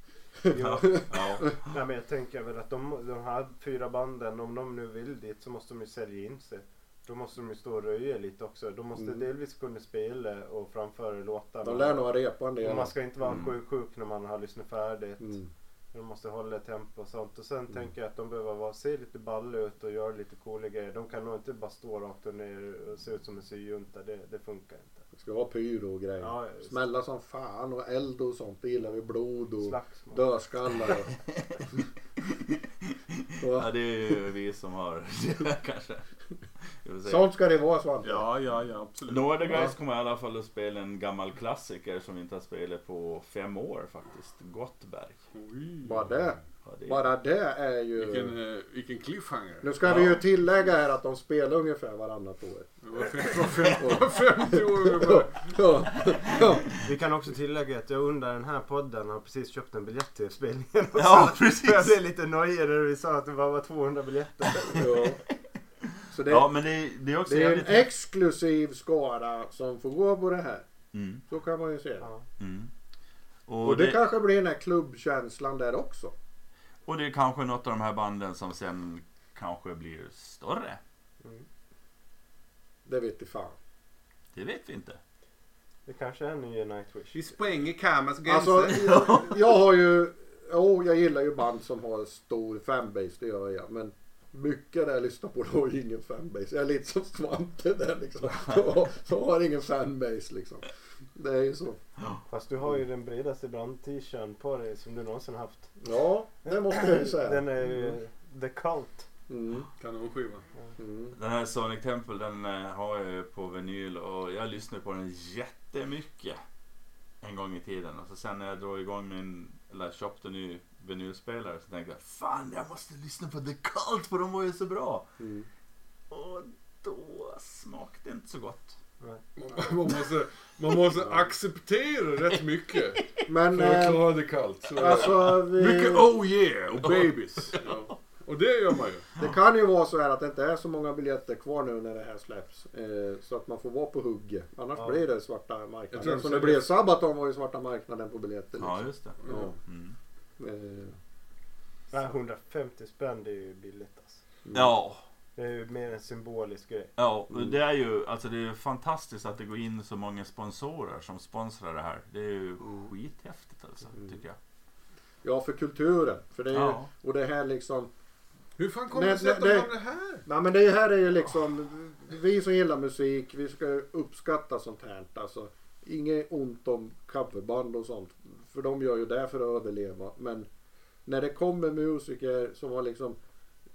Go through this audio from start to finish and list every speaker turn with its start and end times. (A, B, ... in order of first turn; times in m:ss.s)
0:00.4-0:01.5 A
0:00.5-0:01.7 B
0:00.5-0:12.1 C
0:09.0-0:09.2 A
0:11.6-0:12.9 A
0:12.6-0:15.4 C
0:13.2-0:13.6 B
0:15.2-0:15.5 A
0:15.9-0:25.0 C
0:25.2-0:31.1 A
0:26.2-0:26.8 C
0:29.6-0:30.2 C
0:32.3-0:36.0 B
0:33.4-0:33.7 A
0:36.8-0:37.3 B
0:37.0-0:38.2 A
0:38.0-0:39.6 D
0:39.1-0:45.2 B
0:45.3-0:46.2 D
0:45.8-0:48.4 A
0:46.6-0:47.0 B
0:48.0-0:49.8 D
0:49.6-0:52.7 A
0:49.8-0:50.2 B
0:52.8-0:55.5 D
0:53.4-0:56.7 A
0:56.8-1:04.9 C
1:01.0-1:02.0 B
1:04.7-1:05.2 A
1:06.1-1:06.5 A
1:06.3-1:07.9 B
1:07.3-1:10.6 A
1:10.9-1:11.2 B
1:11.3-1:12.1 A
1:12.4-1:12.7 B
1:13.5-1:14.0 B
1:13.6-1:16.1 A
1:16.9-1:20.8 B
1:22.9-1:23.6 A
1:24.3-1:25.0 B
1:25.9-1:27.2 C
1:27.1-1:28.9 D
1:28.2-1:41.8 A
1:28.8-1:29.4 B
1:42.3-1:45.7 C
1:45.8-1:47.4 A
1:46.5-1:49.1 C
1:49.3-1:49.7 A
1:49.8-1:50.5 D
1:50.8-1:51.2 A
1:51.2-1:56.4 B
1:57.2-2:05.1 B
2:05.2-2:05.5 A
2:06.1-2:08.8 B
2:09.4-2:19.1 D
2:11.0-2:11.2 A
2:13.3-2:14.2 A
2:14.7-2:16.1 A
2:17.0-2:17.6 B
2:19.2-2:29.6 A
2:24.8-2:25.0 C
2:25.9-2:26.7 D
2:28.6-2:30.0 B
2:29.2-2:29.5 D
2:30.4-2:31.0 A
2:31.9-2:34.2 C
2:34.5-2:34.7 A
2:34.5-2:35.0 B
2:35.4-2:36.9 C
2:37.0-2:44.4 B
2:42.6-2:42.9 A
2:45.2-2:47.9 A
2:46.5-2:46.9 B
2:48.6-2:50.2 D
2:48.9-2:49.7 A
2:50.2-3:00.5 A
3:01.1-3:03.2 A